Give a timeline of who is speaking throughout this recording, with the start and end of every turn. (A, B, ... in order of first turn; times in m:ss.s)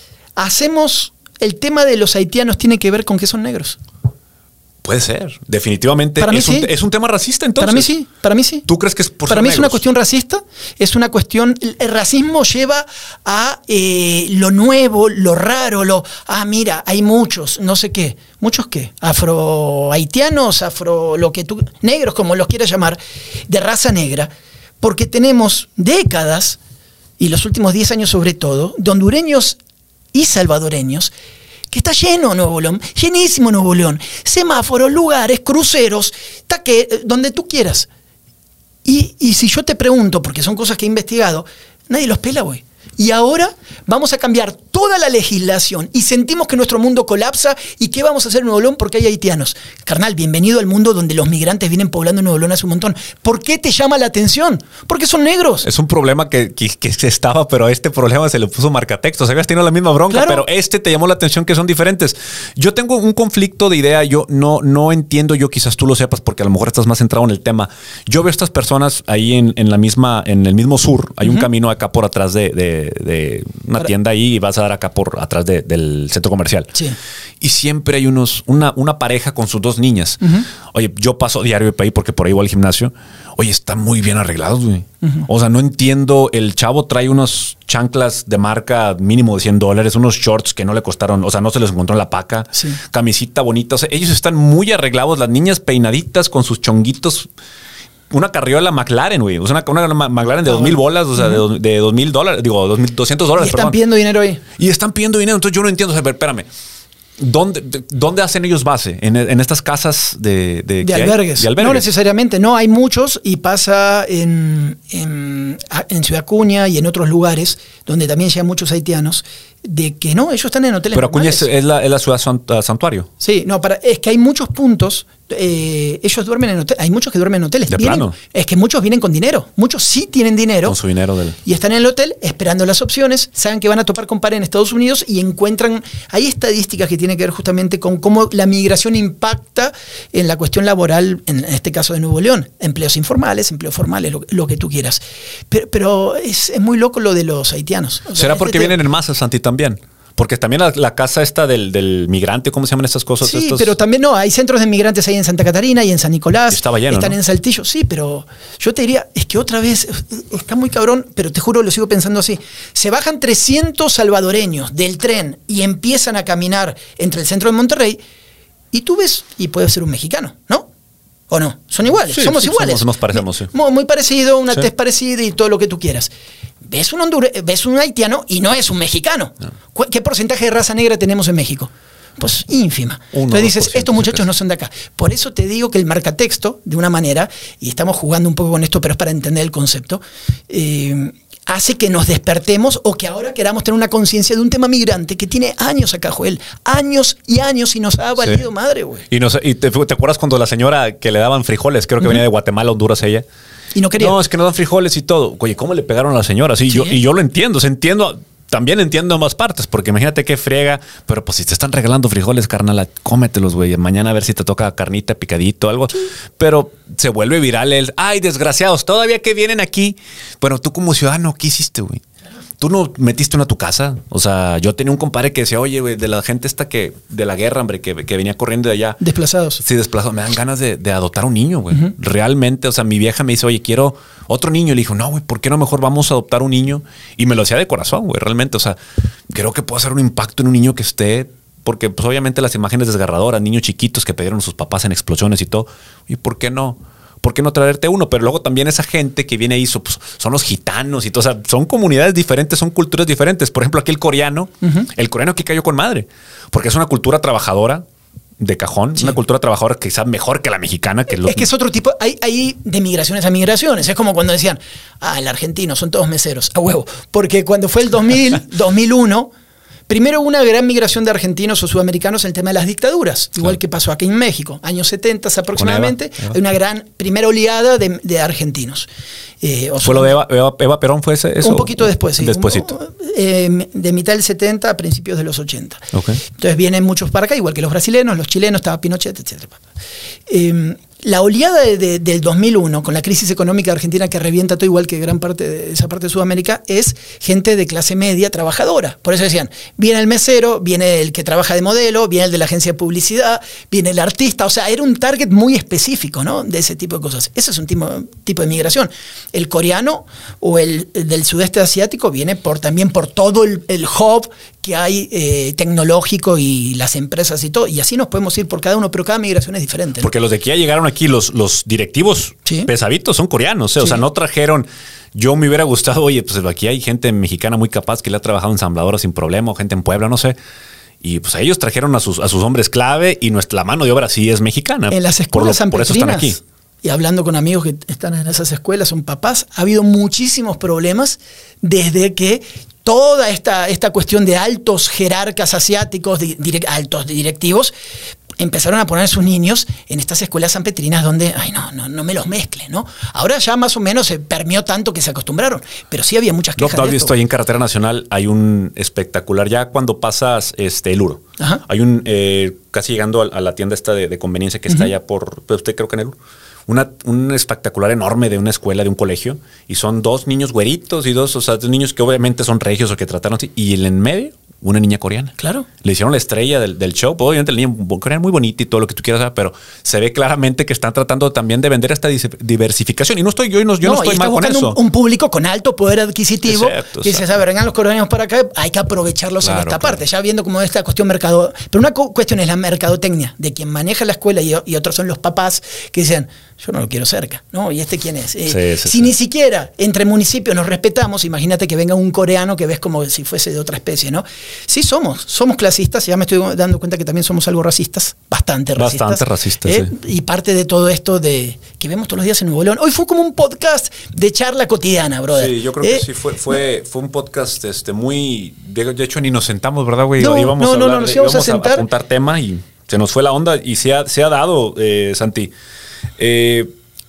0:00.4-0:03.8 A
0:04.8-0:07.9 B
0:06.2-0:06.7 A
0:07.6-0:08.7 A
0:08.7-0:09.8 B
0:09.3-0:26.6 A
0:27.2-0:29.6 A
0:30.1-0:31.1 A
0:31.7-0:37.9 A
0:38.8-0:55.7 A
0:55.6-1:16.8 B
1:00.1-1:00.4 A
1:17.4-1:37.3 B
1:32.5-1:32.8 A
1:38.1-1:43.8 B
1:40.5-1:41.4 A
1:43.4-1:44.4 A
1:44.6-1:46.5 B
1:47.2-1:51.8 B
1:50.8-2:01.5 A
2:00.9-2:03.1 B
2:03.2-2:10.8 A
2:07.7-2:08.2 B
2:10.7-2:11.4 B
2:11.4-2:28.8 A
2:28.1-2:33.7 B
2:33.2-2:48.0 A
2:36.5-2:37.2 B
2:48.7-2:50.7 A
2:51.3-2:56.1 A
2:52.1-2:53.5 B
2:56.6-3:19.0 A
3:03.1-3:04.2 B
3:19.1-3:23.2 B
3:23.8-3:24.2 A
3:24.0-3:42.0 B
3:26.7-3:27.0 A
3:42.6-3:49.0 B
3:49.0-3:49.6 A
3:49.6-3:58.8 B
3:59.3-4:17.8 B
4:18.4-4:21.5 B
4:21.1-4:29.3 A
4:29.9-4:38.9 A
4:35.6-4:36.3 B
4:39.4-4:40.2 A
4:39.8-4:42.7 B
4:41.4-4:49.6 A
4:45.9-4:46.2 B
4:50.3-5:20.1 A
5:20.0-5:30.4 B
5:31.0-5:36.4 B
5:34.9-5:47.7 A
5:48.4-5:57.1 A
5:56.6-6:24.8 B
6:15.4-6:15.7 A
6:23.8-6:56.1 A
6:26.4-6:27.2 B
6:29.4-6:30.0 B
6:38.5-6:39.1 B
6:48.8-6:49.9 B
6:55.3-7:05.5 B
7:00.2-7:01.8 A
7:06.2-7:06.7 B